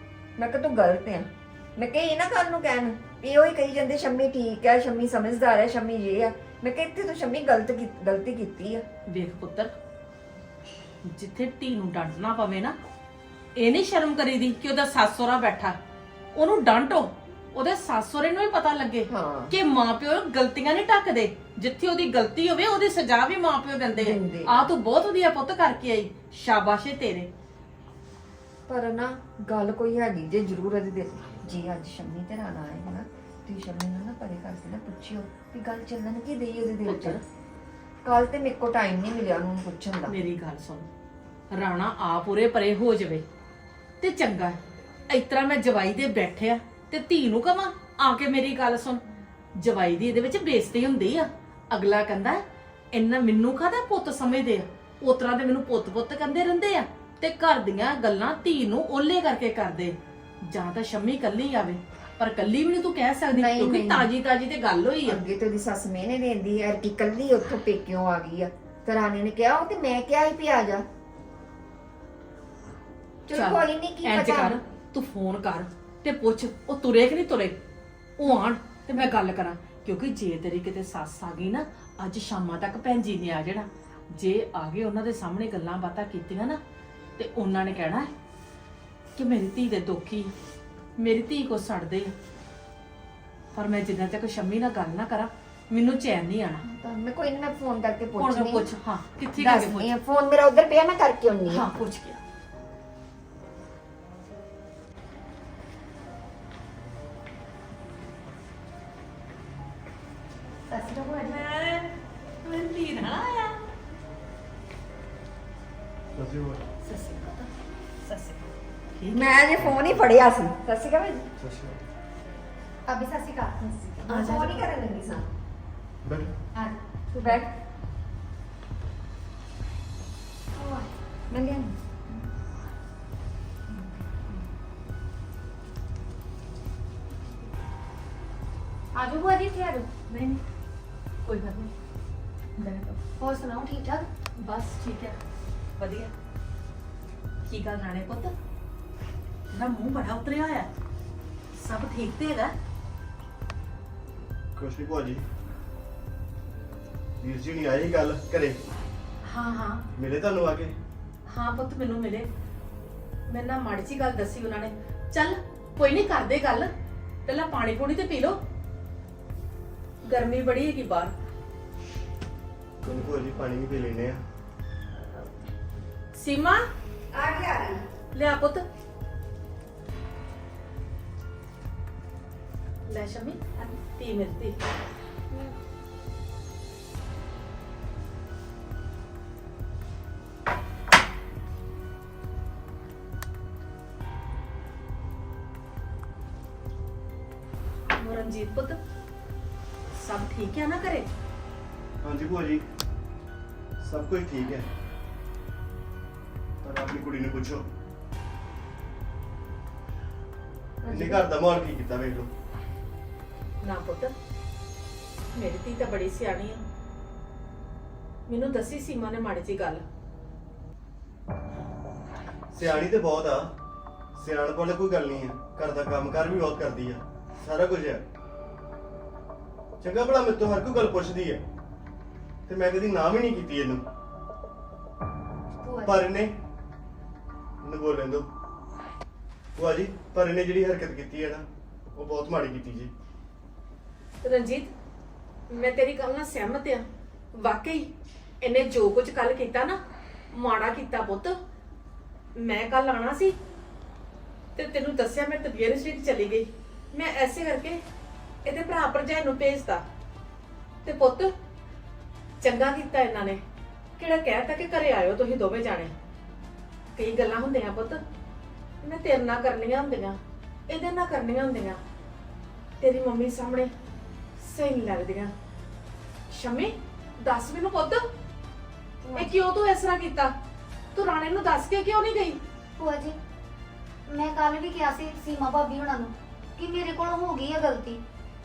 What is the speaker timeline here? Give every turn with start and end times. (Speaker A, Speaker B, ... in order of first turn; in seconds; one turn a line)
Speaker A: 0.4-8.8
Speaker B: 9.1-9.7
Speaker B: 11.0-12.7
Speaker B: 13.6-15.8
Speaker B: 16.3-27.3
Speaker A: 19.1-19.5
Speaker A: 24.0-24.6
Speaker A: 28.7-37.2
Speaker B: 36.8-37.2
Speaker A: 38.0-40.1
Speaker B: 40.1-40.9
Speaker B: 41.5-43.2
Speaker B: 44.0-44.6
Speaker B: 45.1-49.0
Speaker B: 49.5-65.2
Speaker C: 63.3-64.0
Speaker A: 65.0-70.8
Speaker A: 73.3-74.5
Speaker B: 73.3-77.6
Speaker B: 78.2-86.6
Speaker B: 87.2-88.1
Speaker B: 89.2-90.3
Speaker B: 91.0-92.1
Speaker B: 93.5-96.6
Speaker A: 96.6-98.7
Speaker B: 98.2-99.9
Speaker A: 99.4-101.7
Speaker B: 101.5-102.2
Speaker C: 110.7-111.4
Speaker B: 111.2-113.6
Speaker D: 116.2-116.6
Speaker B: 116.8-117.5
Speaker B: 118.0-119.4
Speaker A: 119.1-121.3
Speaker D: 121.4-121.8
Speaker C: 122.8-123.5
Speaker A: 123.6-125.3
Speaker B: 124.1-124.5
Speaker D: 126.0-126.3
Speaker C: 126.5-127.4
Speaker A: 127.2-127.5
Speaker C: 130.5-130.9
Speaker A: 131.3-131.7
Speaker C: 138.9-139.9
Speaker B: 140.1-140.4
Speaker B: 141.2-141.7
Speaker B: 142.6-142.9
Speaker C: 143.2-144.1
Speaker B: 144.3-145.2
Speaker B: 145.8-146.1
Speaker B: 147.5-148.3
Speaker B: 149.5-150.7
Speaker B: 151.5-152.5
Speaker D: 154.6-155.2
Speaker D: 157.2-158.6
Speaker B: 159.2-159.8
Speaker D: 159.9-160.7
Speaker B: 161.3-162.3
Speaker B: 163.3-166.7
Speaker B: 167.2-168.4
Speaker B: 170.0-171.1
Speaker D: 172.8-174.2
Speaker B: 176.1-176.7
Speaker A: 177.1-177.8
Speaker B: 178.1-178.6
Speaker B: 182.9-183.4
Speaker B: 183.9-184.6
Speaker B: 198.0-198.8
Speaker B: 199.9-201.1
Speaker D: 202.0-202.6
Speaker D: 203.8-204.7
Speaker D: 206.6-207.6
Speaker A: 210.8-211.2
Speaker D: 210.9-212.3
Speaker B: 213.6-214.1
Speaker B: 215.3-216.6
Speaker B: 218.3-219.8
Speaker D: 222.5-223.5
Speaker B: 222.6-222.8
Speaker D: 224.2-228.0
Speaker D: 229.8-231.4
Speaker D: 232.5-233.8
Speaker C: 235.6-236.1
Speaker D: 235.8-236.3
Speaker D: 237.6-238.2
Speaker D: 239.6-242.9
Speaker B: 244.2-244.7
Speaker B: 245.5-247.9
Speaker B: 248.4-249.8
Speaker B: 250.3-251.3
Speaker B: 252.3-253.3
Speaker B: 254.6-257.8
Speaker B: 258.4-259.8
Speaker B: 260.8-261.3
Speaker B: 262.4-263.4
Speaker B: 264.0-265.9
Speaker B: 266.9-268.0
Speaker B: 268.8-270.2
Speaker B: 270.7-271.8
Speaker B: 272.8-273.7
Speaker B: 274.4-275.3
Speaker B: 276.3-278.1
Speaker A: 279.0-279.3
Speaker B: 279.1-280.3
Speaker B: 280.9-282.4
Speaker C: 282.8-283.2
Speaker C: 284.1-288.0